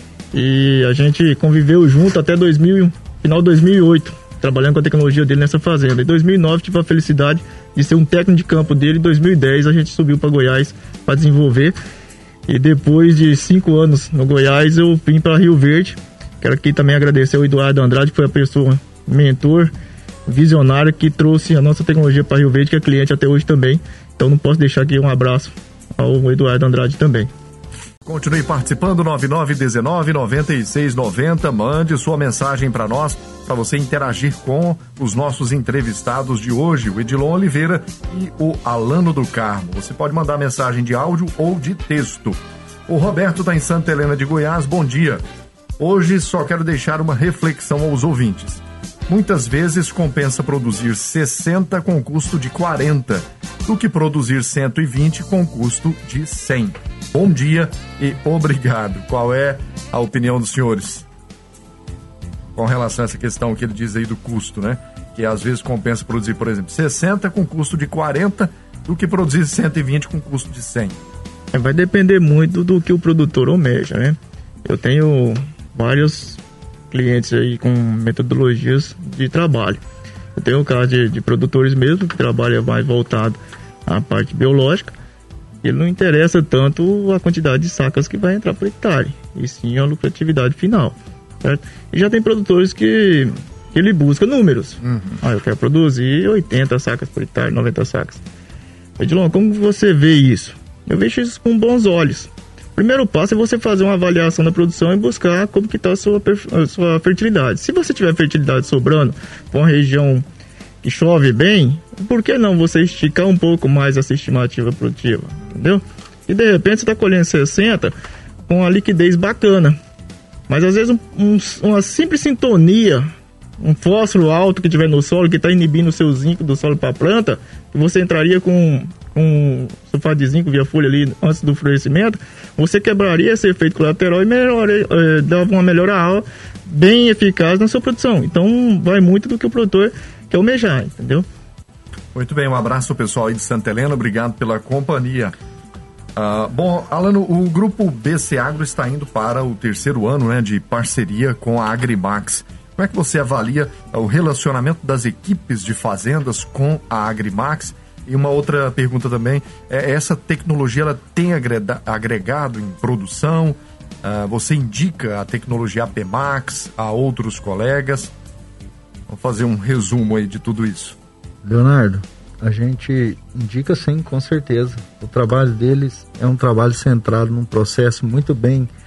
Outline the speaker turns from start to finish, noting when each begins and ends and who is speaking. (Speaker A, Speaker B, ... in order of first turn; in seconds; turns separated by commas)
Speaker A: 0.3-11.8, Speaker A: 12.5-19.7, Speaker A: 20.2-27.3, Speaker B: 28.0-45.2, Speaker B: 45.8-61.0, Speaker B: 62.5-71.0, Speaker A: 71.5-79.8, Speaker A: 80.3-84.9, Speaker A: 85.6-98.2, Speaker B: 94.9-95.2, Speaker A: 99.0-110.2, Speaker A: 110.8-117.9, Speaker A: 118.5-119.8, Speaker A: 120.5-141.2, Speaker B: 142.1-145.3, Speaker B: 146.2-168.1, Speaker B: 169.1-171.0, Speaker C: 171.4-178.7